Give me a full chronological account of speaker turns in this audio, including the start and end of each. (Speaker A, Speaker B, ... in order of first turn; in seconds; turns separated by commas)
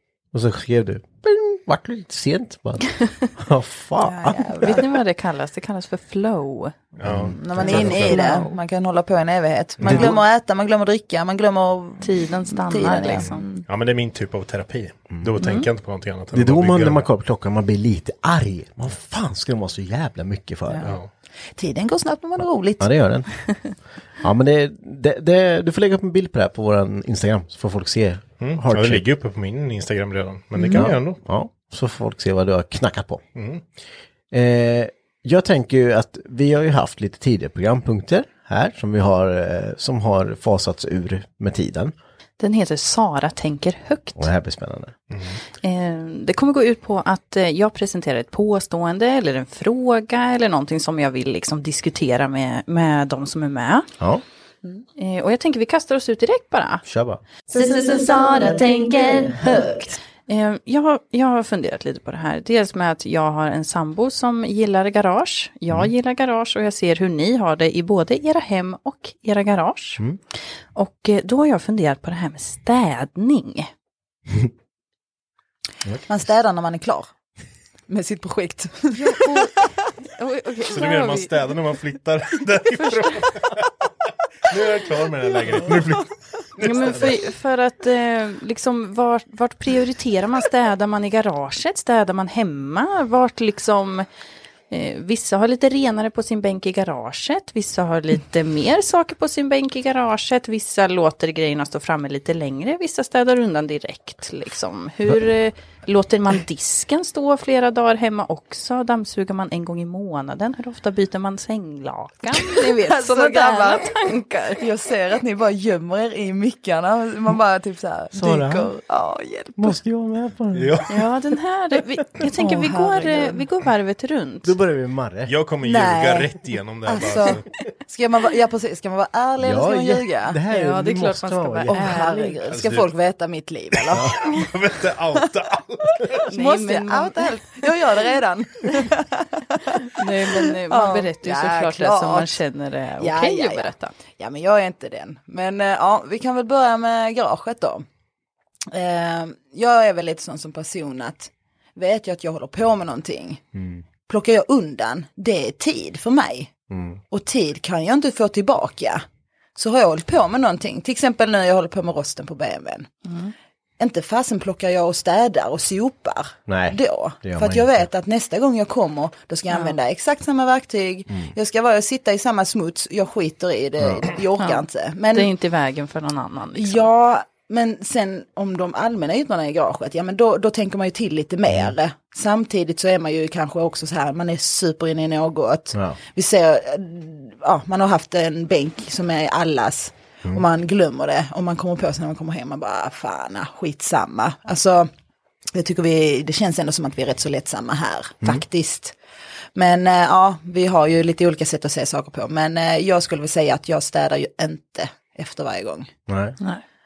Speaker A: 0.3-4.8, Speaker B: 4.0-4.8, Speaker C: 4.6-6.8, Speaker D: 7.0-7.4, Speaker A: 7.0-8.2, Speaker B: 7.4-13.6, Speaker C: 7.6-8.6, Speaker D: 9.8-10.1, Speaker A: 9.8-10.2, Speaker C: 12.0-13.5, Speaker D: 13.7-17.1, Speaker C: 15.4-15.7, Speaker A: 16.3-20.9, Speaker B: 20.7-20.9, Speaker B: 21.6-22.9, Speaker A: 22.8-23.3, Speaker A: 24.2-29.0, Speaker D: 28.4-31.2, Speaker A: 30.7-33.2, Speaker D: 33.4-33.6, Speaker A: 34.3-41.9, Speaker C: 42.4-44.3, Speaker A: 44.2-44.9, Speaker D: 45.1-45.4, Speaker C: 45.6-53.9, Speaker C: 55.0-56.8, Speaker A: 56.9-57.2, Speaker C: 57.5-70.0, Speaker C: 70.8-73.7, Speaker B: 76.1-77.1, Speaker B: 77.9-79.7, Speaker C: 79.0-81.5, Speaker D: 80.7-83.7, Speaker C: 82.8-83.4, Speaker D: 84.5-87.1, Speaker C: 86.6-94.1, Speaker C: 94.7-114.6, Speaker B: 112.5-114.0, Speaker B: 114.6-119.8, Speaker A: 118.1-118.7, Speaker A: 119.6-120.8, Speaker D: 120.5-121.0, Speaker C: 120.9-124.5, Speaker B: 122.4-123.4, Speaker A: 124.4-125.3, Speaker D: 125.3-127.5, Speaker B: 125.6-126.3, Speaker B: 126.9-130.4, Speaker A: 129.4-132.3, Speaker C: 130.5-132.4, Speaker B: 131.7-134.1, Speaker D: 132.5-132.9, Speaker D: 133.8-136.2, Speaker A: 133.9-134.2, Speaker B: 136.3-142.4, Speaker C: 136.3-137.6, Speaker C: 139.9-143.9, Speaker B: 143.0-147.8, Speaker B: 148.7-153.4, Speaker A: 153.6-153.8, Speaker B: 154.1-156.5, Speaker A: 156.7-157.0, Speaker B: 157.1-159.0, Speaker B: 159.6-162.9, Speaker C: 163.1-163.3, Speaker B: 163.8-175.3, Speaker A: 166.5-167.9, Speaker C: 169.5-169.8, Speaker C: 174.4-176.9, Speaker B: 176.6-194.9, Speaker A: 181.5-181.7, Speaker A: 185.7-186.0, Speaker B: 195.5-199.0, Speaker B: 199.6-205.9, Speaker A: 206.1-206.4